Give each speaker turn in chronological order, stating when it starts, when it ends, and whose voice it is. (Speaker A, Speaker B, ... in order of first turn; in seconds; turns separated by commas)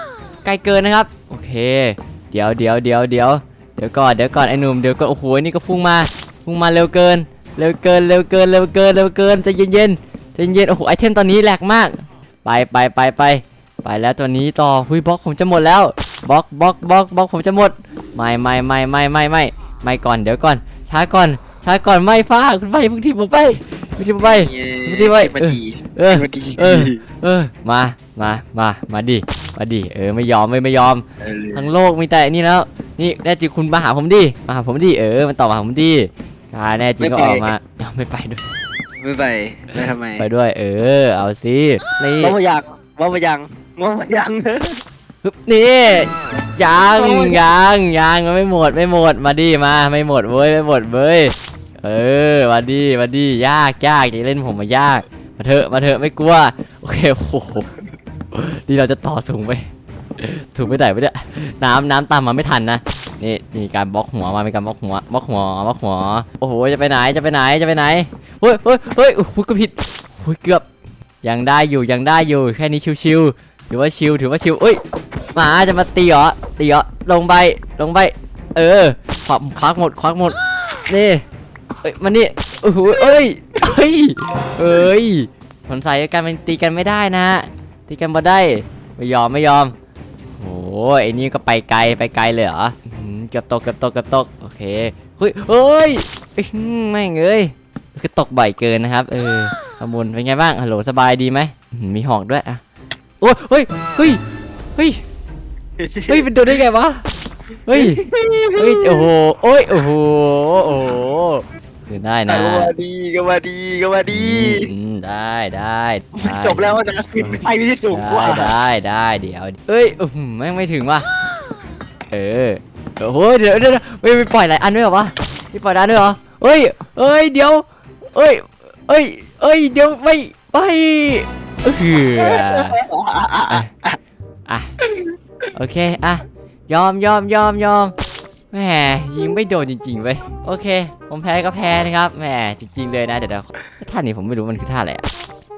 Speaker A: 0.4-38.5, Speaker B: 24.2-27.0, Speaker B: 31.2-31.7, Speaker B: 37.0-37.5, Speaker B: 39.0-40.3, Speaker A: 39.8-42.4, Speaker B: 42.2-44.8, Speaker A: 45.2-57.8, Speaker B: 47.0-47.4, Speaker A: 58.3-70.7, Speaker A: 71.2-74.8, Speaker A: 75.3-80.4, Speaker A: 80.9-81.2, Speaker A: 81.8-89.7, Speaker A: 90.4-102.6, Speaker A: 103.2-104.2, Speaker A: 104.8-105.0, Speaker B: 105.8-106.3, Speaker A: 106.1-107.1, Speaker A: 107.7-108.0, Speaker B: 107.7-109.1, Speaker A: 108.6-112.7, Speaker B: 112.3-114.7, Speaker A: 114.1-117.4, Speaker B: 116.2-118.5, Speaker A: 117.9-121.1, Speaker A: 122.1-132.8, Speaker B: 132.2-134.0, Speaker B: 134.8-135.1, Speaker A: 135.5-137.9, Speaker A: 138.5-145.1